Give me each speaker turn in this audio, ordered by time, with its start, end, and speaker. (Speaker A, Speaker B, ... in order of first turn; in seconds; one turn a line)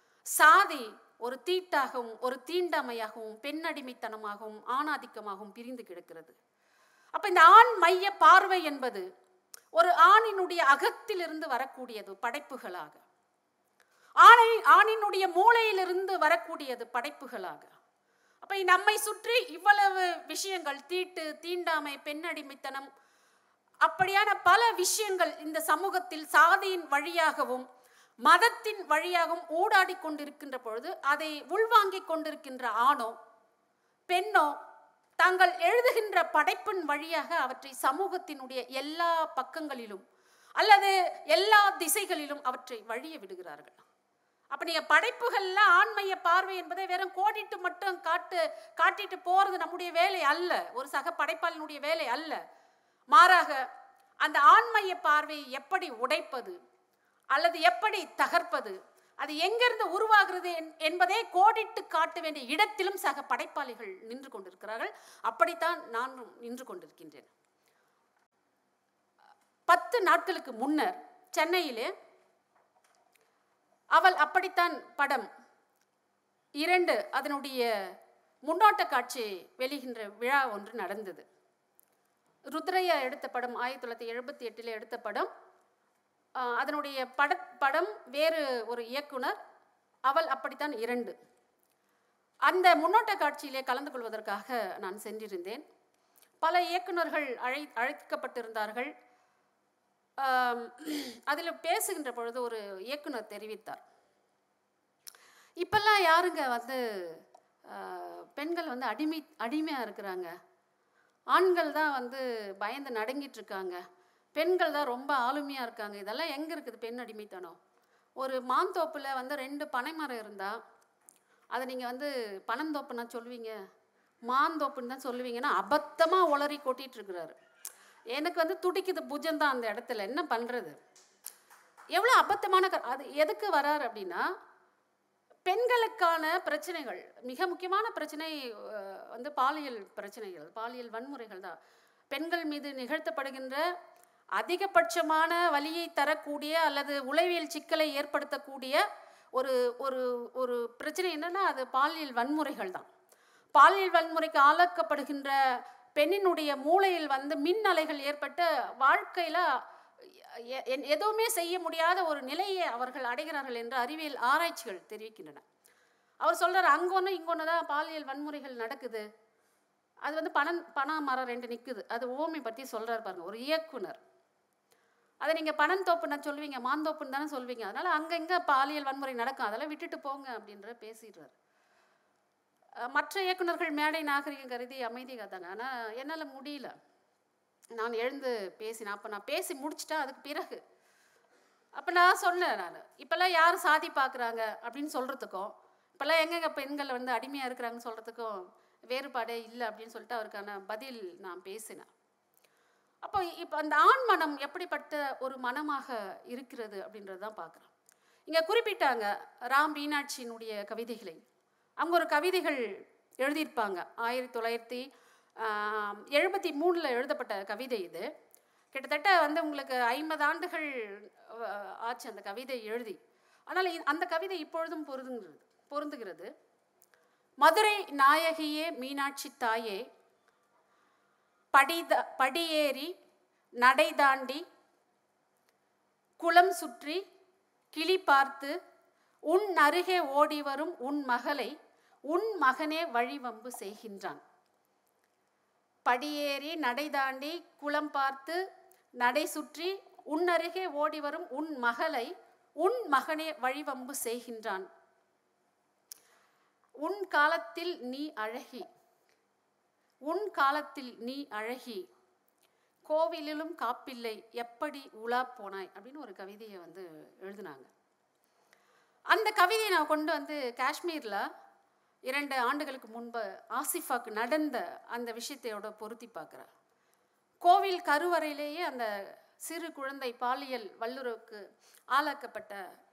Speaker A: 0.4-6.4
Speaker A: 7.2-9.1
Speaker A: 9.8-13.0
Speaker A: 14.2-17.7
Speaker A: 18.4-22.9
Speaker A: 23.8-27.7
Speaker A: 28.3-33.2
Speaker A: 34.1-34.6
Speaker A: 35.2-40.0
Speaker A: 40.6-43.9
Speaker A: 44.5-52.4
Speaker A: 53.1-53.6
Speaker A: 54.2-56.6
Speaker A: 57.3-67.3
Speaker A: 69.7-71.9
Speaker A: 74.0-75.3
Speaker A: 76.6-77.7
Speaker A: 78.5-81.2
Speaker A: 82.5-85.3
Speaker A: 86.4-89.4
Speaker A: 90.1-91.2
Speaker A: 92.5-95.6
Speaker A: 96.4-98.9
Speaker A: 100.2-103.8
Speaker A: 105.6-110.3
Speaker A: 111.3-113.8
Speaker A: 114.3-117.6
Speaker A: 118.2-120.6
Speaker A: 121.5-123.5
Speaker A: 124.3-127.3
Speaker A: 128.1-130.8
Speaker A: 131.9-134.3
Speaker A: 135.5-141.6
Speaker A: 142.1-143.7
Speaker A: 144.4-148.8
Speaker A: 149.4-152.9
Speaker A: 153.6-155.3
Speaker A: 156.0-165.4
Speaker A: 166.2-169.0
Speaker A: 170.0-174.0
Speaker A: 175.2-181.3
Speaker A: 182.9-186.7
Speaker A: 187.8-190.6
Speaker A: 191.8-201.9
Speaker A: 203.0-207.7
Speaker A: 208.3-211.2
Speaker A: 211.8-212.7
Speaker A: 213.2-214.9
Speaker A: 215.4-218.1
Speaker A: 218.7-223.0
Speaker A: 223.5-226.3
Speaker A: 227.4-229.8
Speaker A: 231.5-232.9
Speaker A: 233.6-234.4
Speaker A: 236.2-237.0
Speaker A: 237.7-238.6
Speaker A: 239.3-241.5
Speaker A: 242.1-244.2
Speaker A: 245.9-248.4
Speaker A: 249.0-254.7
Speaker A: 256.8-258.7
Speaker A: 260.1-261.9
Speaker A: 262.9-267.7
Speaker A: 269.1-271.2
Speaker A: 272.1-276.5
Speaker A: 277.4-278.9
Speaker A: 279.4-282.6